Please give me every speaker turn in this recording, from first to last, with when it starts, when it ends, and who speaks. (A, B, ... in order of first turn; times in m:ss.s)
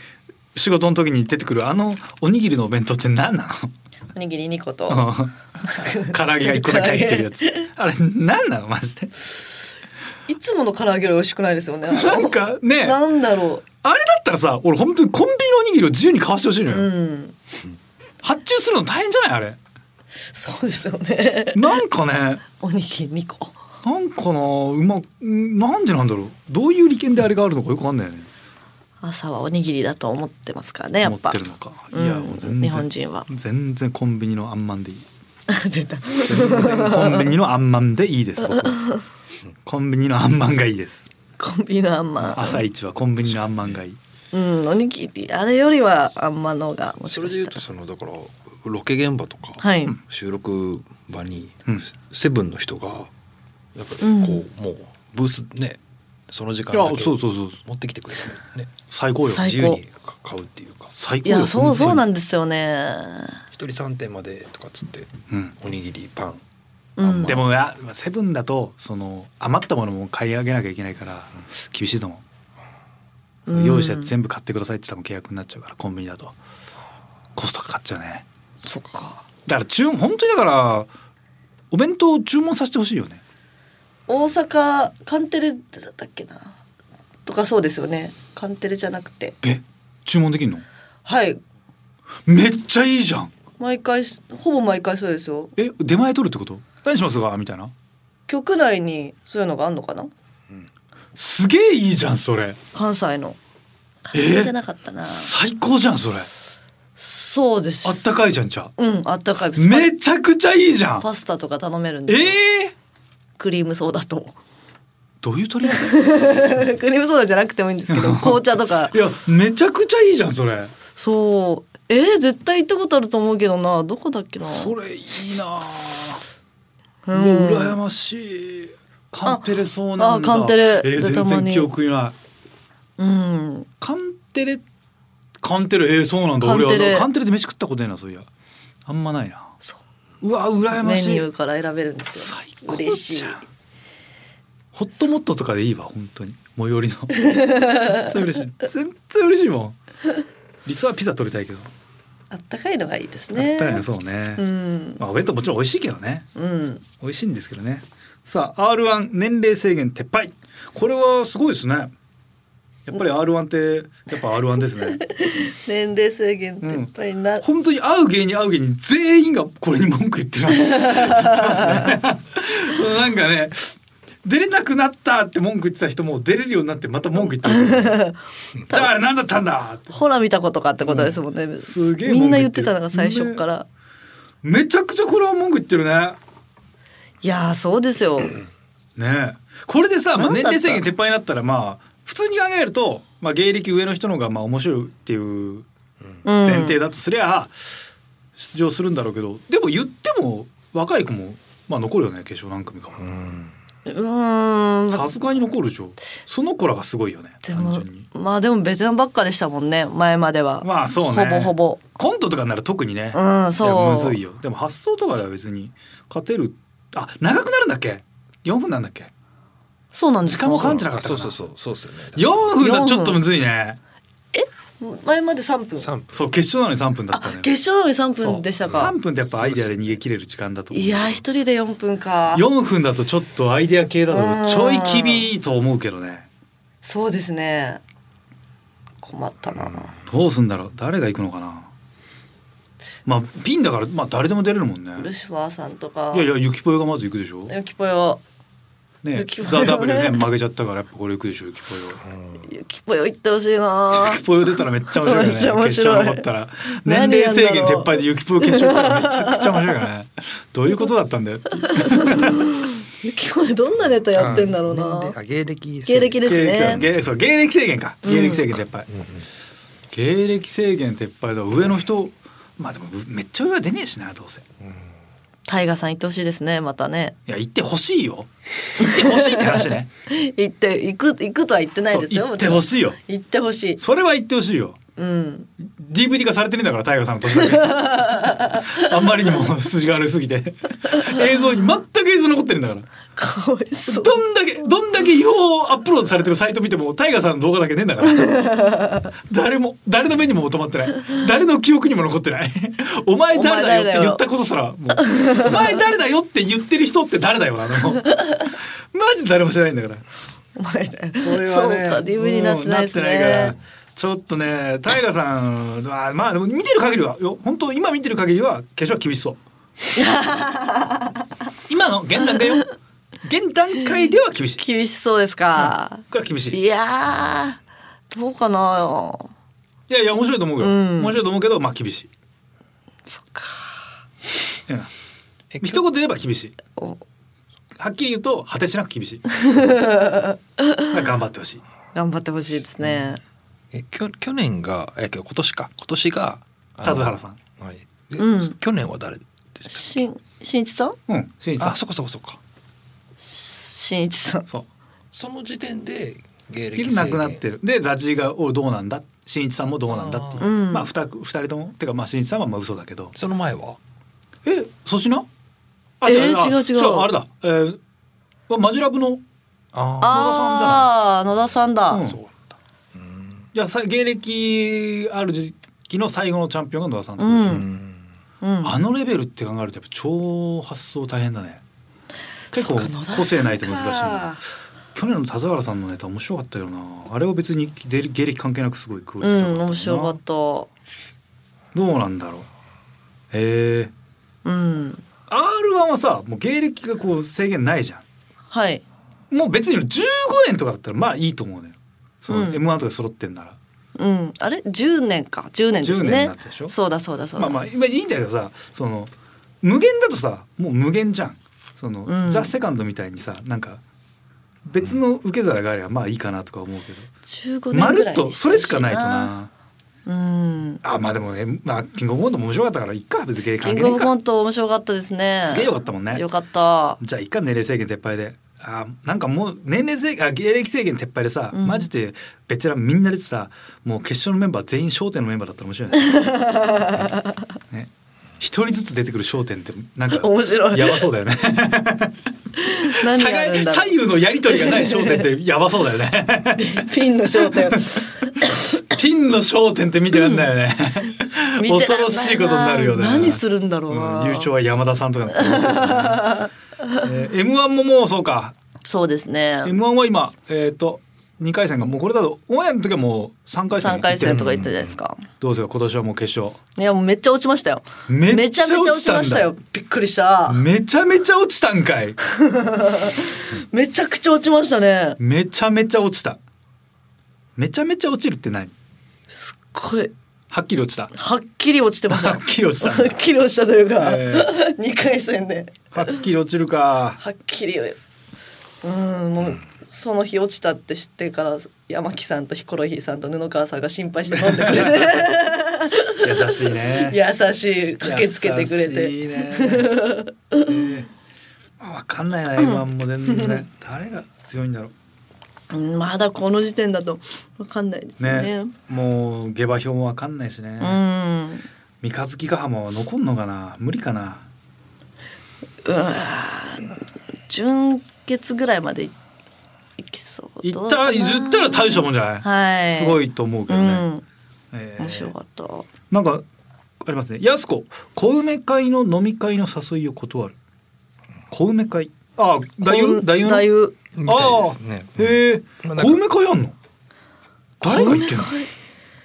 0:00.5-0:03.7 A
0:04.1-0:05.1 B
0:04.9-0:09.3 A
0:05.7-0:07.7 B
0:10.3-0:13.6 B
0:11.9-0:13.0 A
0:13.8-0:16.9 A
0:16.7-0:17.4 B
0:18.2-0:19.6 A
0:20.3-0:21.8 B
0:21.5-0:22.4 A
0:22.5-0:23.5 B
0:23.8-0:28.3 A
0:29.0-0:33.3 B
0:31.0-0:35.0 A
0:35.5-0:37.3 B
0:36.1-0:38.8 A
0:38.6-0:39.0 B
0:39.6-0:41.1 A
0:41.4-0:42.6 B
0:42.2-0:44.0 A
0:44.3-0:47.6 B
0:47.0-0:53.1 C
0:49.6-0:49.9 B
0:53.7-0:58.7 C
0:54.0-0:54.4 B
0:56.7-0:57.6 A
0:58.9-0:59.6 A
0:59.2-0:59.8 B
0:59.3-1:00.9 C
1:00.9-1:02.0 A
1:01.2-1:03.4 B
1:03.5-1:06.4 C
1:07.0-1:07.4 B
1:07.0-1:07.4 C
1:07.2-1:12.2 A
1:13.5-1:14.1 B
1:13.5-1:16.3 A
1:17.4-1:18.2 A
1:18.6-1:19.2 B
1:19.4-1:20.9 A
1:21.7-1:23.2 A
1:24.1-1:26.6 B
1:27.2-1:29.4 B
1:29.4-1:30.6 A
1:31.0-1:31.4 B
1:32.2-1:33.3 A
1:33.6-1:35.5 B
1:35.6-1:37.7 A
1:38.3-1:40.1 B
1:41.1-1:42.6 A
1:42.7-1:43.4 B
1:44.1-1:45.3 B
1:44.1-1:46.3 A
1:47.0-1:49.9 B
1:47.8-1:48.7 A
1:49.6-1:51.1 A
1:51.0-1:52.4 B
1:52.1-1:52.7 A
1:53.4-1:54.4 B
1:55.2-1:56.0 A
1:55.6-1:59.0 B
1:57.9-2:00.7 A
2:01.0-2:04.7 B
2:04.5-2:06.2 A
2:07.0-2:07.8 B
2:07.1-2:12.1 A
2:09.2-2:11.7 B
2:13.0-2:13.7 B
2:13.8-2:14.6 A
2:15.4-2:18.3 A
2:16.4-2:17.1 B
2:18.8-2:19.5 A
2:20.2-2:21.2 A
2:20.8-2:23.4 B
2:22.1-2:23.4 A
2:24.7-2:29.8 A
2:27.1-2:28.1 B
2:30.6-2:31.7 A
2:32.3-2:33.8 B
2:33.3-2:34.4 A
2:34.4-2:35.0 B
2:35.0-2:36.3 A
2:36.3-2:36.8 B
2:37.0-2:41.9 A
2:42.9-2:45.0 A
2:44.8-2:47.4 B
2:46.6-2:46.9 A
2:47.4-2:53.7 A
2:50.6-2:51.9 B
2:54.2-2:58.0 A
2:57.2-2:58.9 B
2:58.6-2:59.9 A
2:59.9-3:03.7 B
3:00.8-3:03.4 A
3:04.4-3:06.2 A
3:07.2-3:08.4 B
3:09.0-3:15.7 A
3:10.2-3:10.8 B
3:16.2-3:16.8 B
3:16.4-3:17.6 A
3:18.4-3:23.2 A
3:23.0-3:23.5 C
3:23.8-3:25.2 B
3:24.9-3:28.0 A
3:27.4-3:31.8 B
3:30.6-3:39.1 A
3:33.1-3:34.2 B
3:39.9-3:40.8 B
3:40.2-3:41.4 A
3:40.5-3:42.6 C
3:42.1-3:43.8 A
3:42.6-3:43.2 B
3:44.3-3:45.9 B
3:45.8-3:46.2 C
3:46.1-3:47.5 A
3:47.1-3:49.0 B
3:48.2-3:51.2 A
3:48.6-3:49.7 C
3:50.7-3:52.4 B
3:52.3-3:56.2 A
3:54.1-3:55.3 B
3:56.8-3:57.8 B
3:59.0-3:59.9 B
4:00.1-4:01.7 A
4:03.0-4:05.1 A
4:05.0-4:06.3 B
4:06.1-4:07.5 A
4:07.5-4:08.2 B
4:09.0-4:12.0 A
4:09.1-4:10.2 B
4:12.0-4:12.4 C
4:12.4-4:14.2 B
4:13.9-4:22.5 A
4:14.9-4:16.3 B
4:16.8-4:19.8 B
4:21.6-4:25.2 B
4:24.1-4:27.0 C
4:25.8-4:26.8 B
4:26.2-4:28.9 A
4:28.0-4:28.5 B
4:28.9-4:29.2 C
4:29.9-4:34.4 A
4:34.6-4:34.8 C
4:35.5-4:37.2 B
4:37.3-4:39.9 A
4:38.8-4:43.8 B
4:41.9-4:43.0 A
4:43.8-4:44.8 A
4:45.0-4:45.5 B
4:45.8-4:52.8 A
4:47.4-4:48.9 B
4:50.9-4:51.2 B
4:53.2-4:54.2 B
4:53.8-4:58.5 A
4:58.1-4:59.1 B
4:59.3-5:10.0 A
5:03.3-5:04.2 B
5:05.0-5:05.8 B
5:08.1-5:08.4 B
5:10.6-5:13.5 B
5:11.2-5:19.4 A
5:19.9-5:21.2 B
5:21.7-5:22.7 A
5:22.3-5:22.6 B
5:23.2-5:24.6 A
5:24.6-5:27.6 B
5:25.6-5:26.6 A
5:28.1-5:29.3 B
5:29.9-5:32.1 A
5:30.6-5:31.2 B
5:33.1-5:33.9 B
5:35.5-5:35.8 C
5:35.6-5:36.5 A
5:36.8-5:37.0 B
5:37.8-5:39.4 A
5:39.3-5:40.9 B
5:40.9-5:41.6 A
5:41.9-5:43.2 B
5:42.8-5:43.1 C
5:43.7-5:50.0 C
5:46.8-5:47.4 A
5:48.2-5:48.6 B
5:49.7-5:51.0 B
5:51.1-5:51.8 A
5:51.6-5:52.4 C
5:53.2-5:54.5 B
5:55.1-5:57.4 C
5:56.7-6:03.1 A
5:59.9-6:00.4 C
6:00.4-6:00.9 B
6:03.1-6:03.8 C
6:04.4-6:05.3 A
6:06.0-6:07.8 A
6:06.0-6:07.1 B
6:08.5-6:09.2 A
6:09.7-6:10.3 C
6:10.0-6:12.0 B
6:10.0-6:10.9 A
6:11.9-6:12.2 A
6:12.0-6:13.4 C
6:13.5-6:17.7 A
6:17.2-6:17.6 B
6:17.4-6:18.0 C
6:18.4-6:18.8 B
6:18.6-6:21.6 A
6:22.5-6:24.4 A
6:22.5-6:24.4 B
6:24.9-6:30.2 A
6:29.2-6:30.7 B
6:31.7-6:32.5 A
6:33.3-6:33.9 A
6:34.4-6:35.0 B
6:35.3-6:38.0 A
6:38.5-6:38.8 B
6:39.3-6:43.6 A
6:42.3-6:42.6 B
6:44.0-6:47.6 B
6:45.8-6:46.7 A
6:47.4-6:49.1 A
6:49.6-6:53.8 A
6:52.0-6:52.5 B
6:54.6-6:57.1 A
6:57.3-6:59.3 B
6:57.7-6:59.5 A
7:00.0-7:00.8 B
7:00.8-7:04.1 A
7:03.6-7:07.0 B
7:05.4-7:06.2 A
7:07.0-7:16.3 A
7:11.5-7:11.9 B
7:16.0-7:17.4 B
7:17.7-7:22.2 A
7:20.1-7:21.1 B
7:22.6-7:25.2 B
7:22.8-7:26.9 A
7:26.6-7:28.8 B
7:27.4-7:36.4 A
7:30.1-7:30.5 B
7:31.6-7:34.5 B
7:35.4-7:37.0 B
7:37.0-7:38.5 A
7:38.8-7:39.8 B
7:39.6-7:44.5 A
7:43.8-7:45.2 B
7:44.3-7:44.9 C
7:45.4-7:46.6 A
7:46.8-7:50.6 B
7:48.1-7:49.5 A
7:50.5-7:52.2 A
7:52.2-7:55.2 B
7:55.2-7:56.4 A
7:57.6-7:58.7 A
7:59.3-8:00.1 B
8:00.5-8:01.1 A
8:01.1-8:06.2 B
8:02.1-8:03.2 A
8:04.0-8:04.5 A
8:05.9-8:07.2 A
8:07.2-8:08.0 B
8:08.8-8:20.8 B
8:14.3-8:15.3 A
8:16.2-8:17.2 A
8:18.0-8:20.1 A
8:20.6-8:21.1 A
8:21.8-8:24.9 A
8:22.6-8:23.6 B
8:25.7-8:28.7 B
8:28.2-8:31.0 A
8:30.8-8:31.6 B
8:32.0-8:34.4 A
8:35.8-8:39.1 B
8:40.0-8:44.2 B
8:40.6-8:44.0 A
8:44.7-8:45.3 A
8:45.0-8:45.9 B
8:46.1-8:46.4 A
8:47.0-8:50.5 A
8:51.5-8:53.7 A
8:52.8-8:53.9 B
8:54.1-8:56.2 C
8:54.2-8:56.7 A
8:57.8-8:58.5 A
8:57.8-8:58.7 B